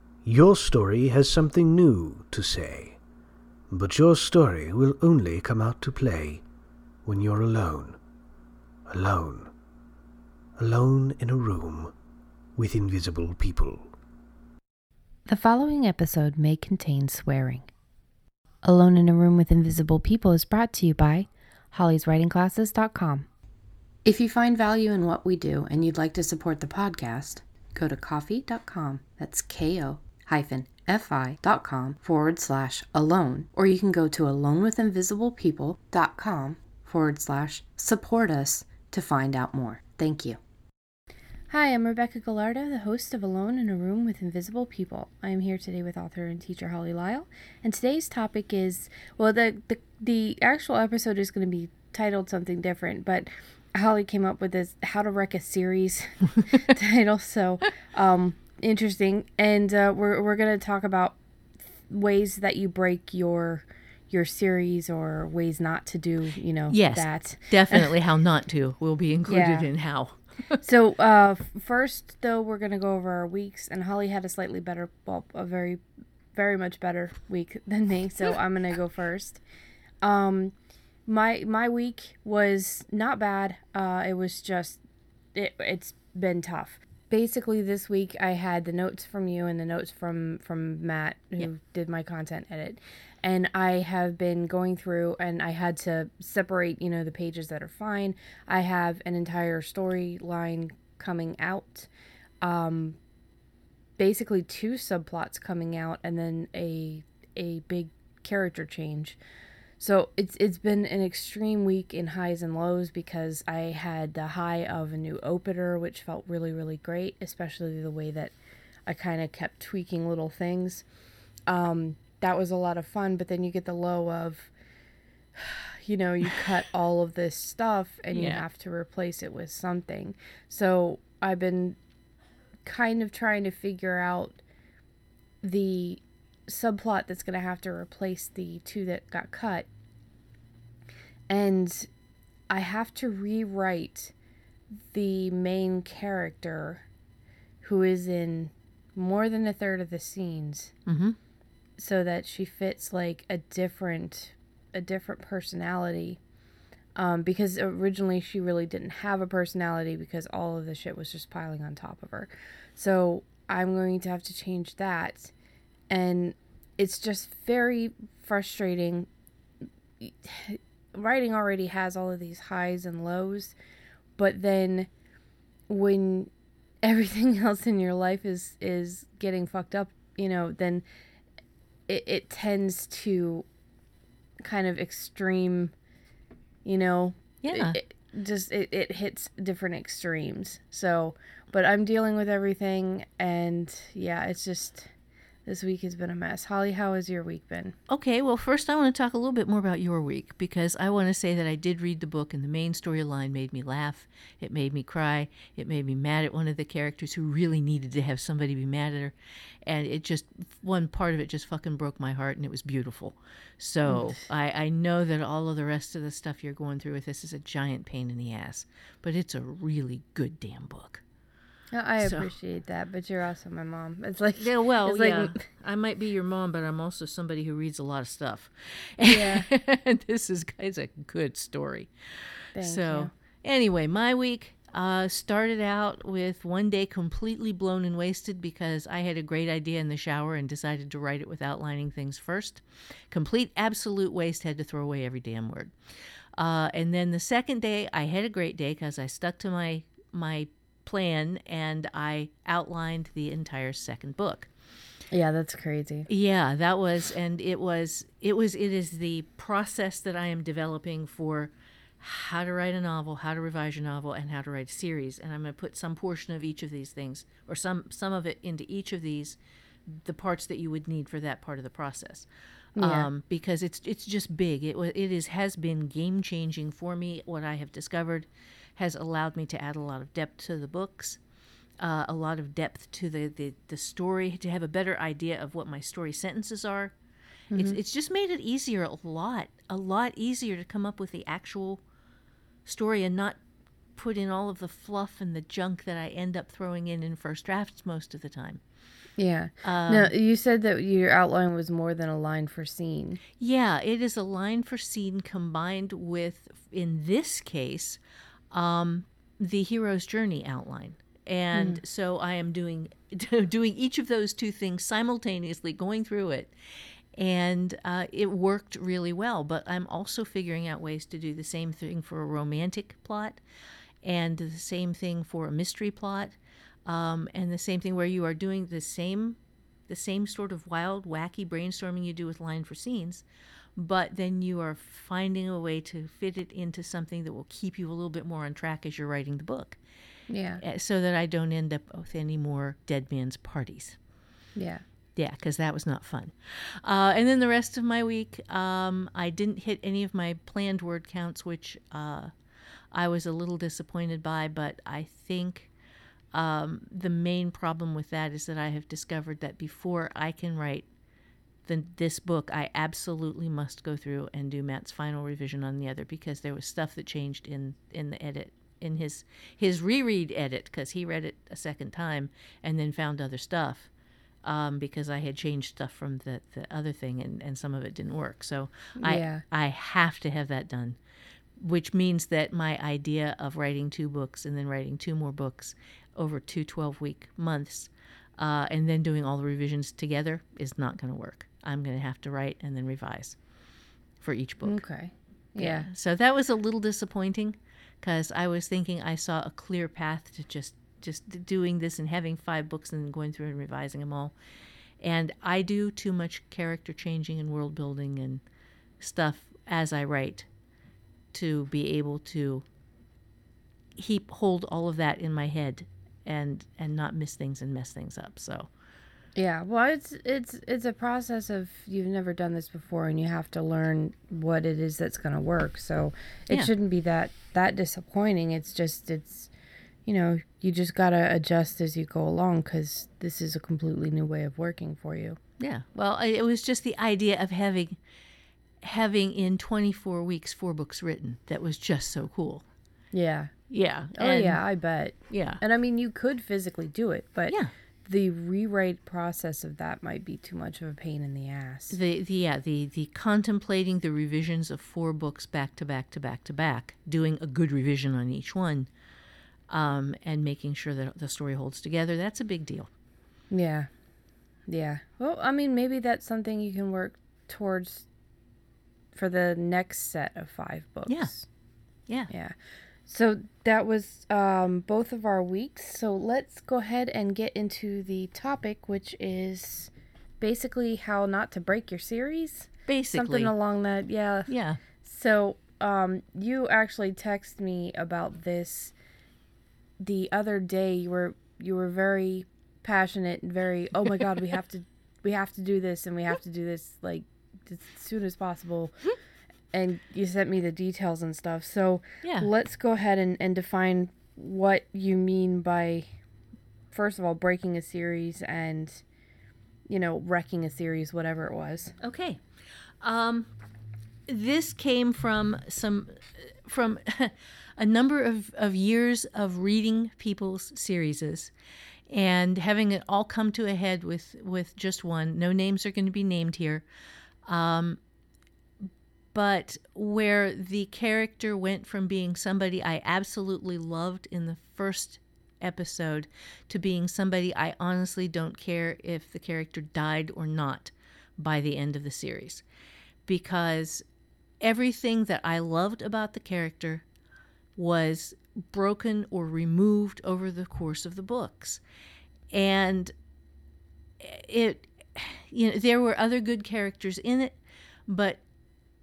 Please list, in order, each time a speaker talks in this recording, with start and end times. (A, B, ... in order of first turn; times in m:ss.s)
0:00.2-0:03.0 A
0:03.7-0:06.4 A
0:07.0-0:08.0 A
0:08.9-0:09.5 A
0:10.6-0:11.9 A
0:12.6-0:13.9 A
0:15.3-0:17.7 B
0:18.6-0:23.3 B
0:24.0-0:40.4 B
0:41.5-1:01.2 B
1:01.9-1:07.9 B
1:06.7-1:10.6 C
1:09.3-1:09.7 B
1:10.6-1:15.8 B
1:16.3-1:19.4 B
1:20.0-1:20.6 B
1:21.1-1:24.8 B
1:25.3-1:41.9 B
1:42.4-1:43.0 B
1:44.0-1:49.2 B
1:49.8-1:58.3 B
1:58.9-2:00.8 B
2:01.5-2:04.5 B
2:05.4-2:11.8 B
2:08.1-2:08.4 C
2:12.6-2:14.4 B
2:15.4-2:19.7 B
2:21.3-2:21.9 B
2:22.5-2:24.1 B
2:24.9-2:26.8 B
2:27.6-2:30.7 B
2:30.9-2:31.2 C
2:31.8-2:36.2 B
2:37.0-2:45.3 B
2:45.9-2:49.1 B
2:50.0-2:53.6 B
2:54.2-2:54.9 B
2:55.7-2:56.3 B
2:56.8-3:00.8 B
3:01.9-3:03.5 B
3:04.4-3:05.7 B
3:06.6-3:14.9 B
3:07.4-3:07.8 C
3:15.5-3:17.8 B
3:17.9-3:29.1 C
3:29.7-3:41.0 C
3:33.9-3:34.2 B
3:41.7-3:45.4 B
3:42.0-3:42.3 C
3:44.4-3:51.9 C
3:49.0-3:49.5 B
3:52.5-4:05.7 C
3:52.6-3:53.1 B
4:06.4-4:14.5 C
4:15.1-4:16.1 B
4:16.1-4:41.2 C
4:32.8-4:33.1 B
4:41.8-4:46.9 C
4:47.5-4:47.8 B
4:47.5-4:51.8 C
4:52.7-4:53.4 C
4:54.0-4:58.6 C
4:59.2-5:03.2 B
4:59.6-5:00.1 C
5:03.4-5:08.0 C
5:08.5-5:16.5 C
5:11.5-5:11.8 B
5:17.2-5:23.4 C
5:24.0-5:33.2 C
5:33.8-5:39.8 C
5:40.3-5:40.6 B
5:40.6-5:44.0 C
5:44.6-5:44.8 B
5:45.2-5:52.3 C
5:52.9-5:55.7 C
5:56.3-6:00.9 C
6:01.7-6:13.9 C
6:14.4-6:21.0 C
6:19.0-6:19.4 B
6:21.6-6:33.4 C
6:34.2-6:34.8 C
6:34.6-6:35.9 B
6:35.6-6:44.3 C
6:45.0-6:48.4 C
6:49.0-6:50.5 C
6:51.3-6:52.6 C
6:54.0-6:58.7 C
6:59.4-7:09.5 B
7:10.1-7:15.4 B
7:15.6-7:18.0 C
7:18.8-7:22.6 C
7:23.1-7:23.5 B
7:23.7-7:24.6 C
7:24.1-7:32.0 B
7:25.3-7:25.6 C
7:31.9-7:38.9 C
7:39.7-7:42.9 C
7:43.5-7:43.9 B
7:44.7-7:48.1 B
7:49.1-7:51.5 B
7:51.1-7:51.3 C
7:52.3-7:52.6 B
7:53.1-8:04.5 B
8:02.9-8:03.5 C
8:04.5-8:04.8 C
8:05.0-8:09.0 B
8:10.0-8:19.0 B
8:19.7-8:26.1 B
8:22.2-8:22.5 C
8:26.9-8:29.0 B
8:29.9-8:32.0 B
8:32.0-8:32.4 C
8:33.0-8:33.5 C
8:34.3-8:41.5 C
8:42.1-8:46.8 C
8:47.5-8:48.0 C
8:49.3-9:02.6 C
9:03.3-9:04.0 C
9:04.6-9:07.0 C
9:07.8-9:11.8 C
9:12.5-9:13.1 C
9:14.2-9:17.6 C
9:18.1-9:18.4 C